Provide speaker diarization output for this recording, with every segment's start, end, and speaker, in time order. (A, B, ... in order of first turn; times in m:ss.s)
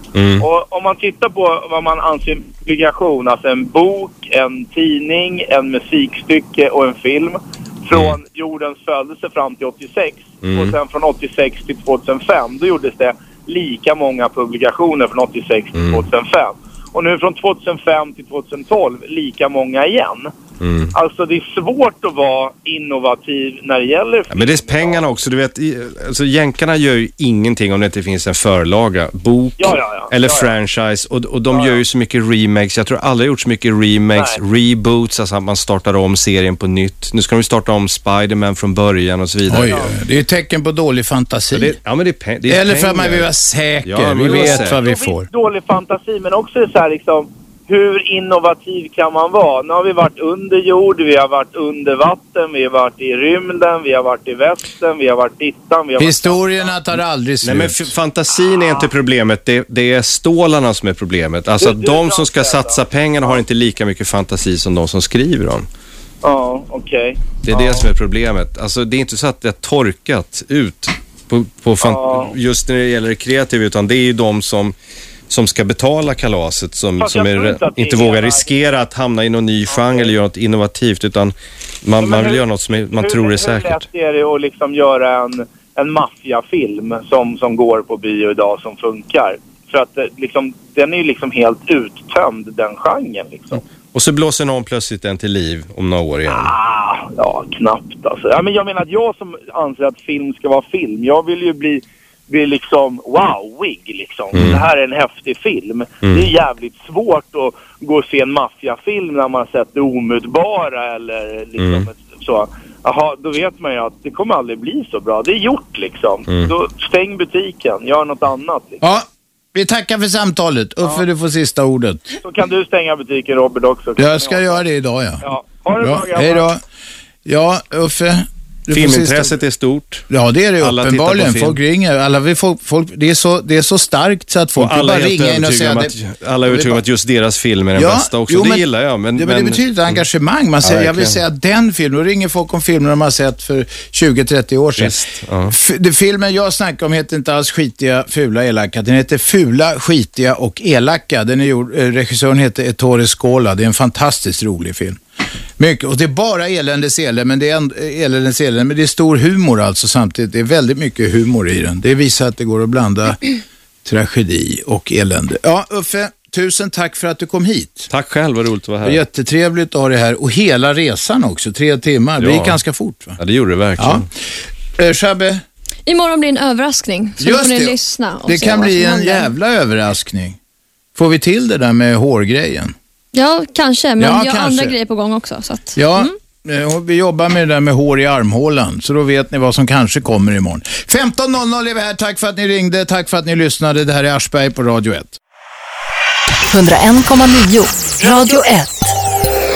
0:00.1-0:00.4 A
0:00.4-0:20.3 B
0:07.9-0:08.2 A
0:10.4-0:10.8 A
0:15.7-0:16.0 A
0:20.6-0:20.9 A
0:20.9-0:25.1 B
0:24.3-0:39.9 A
0:29.6-0:30.5 B
0:31.5-0:31.8 B
0:39.5-0:41.8 C
0:41.5-0:43.3 A
0:42.5-0:45.3 C
0:43.8-0:44.8 A
0:44.2-0:56.9 B
0:56.0-0:57.9 C
0:57.4-1:05.7 A
1:01.6-1:03.4 B
1:06.2-1:07.8 B
1:07.4-1:14.8 A
1:11.8-1:12.3 B
1:15.3-1:23.8 A
1:17.0-1:18.5 B
1:19.7-1:20.1 B
1:22.0-1:33.6 B
1:33.9-1:36.5 A
1:36.3-1:58.8 B
1:44.3-1:44.7 A
1:46.0-1:46.3 A
1:51.6-1:51.9 A
1:56.3-1:56.5 A
1:58.8-2:02.1 C
2:02.2-2:04.6 B
2:04.0-2:05.2 C
2:05.2-2:06.4 B
2:05.8-2:06.6 C
2:07.2-2:09.3 C
2:08.7-2:10.1 A
2:10.1-2:15.9 C
2:10.6-2:11.6 A
2:14.6-2:20.0 A
2:16.5-2:16.8 C
2:17.8-2:35.0 C
2:20.6-2:21.2 A
2:24.8-2:25.5 A
2:35.6-2:43.2 C
2:43.8-2:47.9 C
2:47.9-2:49.0 A
2:48.8-2:53.2 C
2:52.2-2:52.6 A
2:53.2-2:54.1 A
2:53.8-2:54.0 C
2:54.8-2:55.4 C
2:55.8-2:59.3 D
2:57.2-3:00.4 C
3:00.9-3:02.7 C
3:03.1-3:06.1 D
3:04.0-3:04.7 C
3:05.8-3:15.2 C
3:16.5-3:18.9 E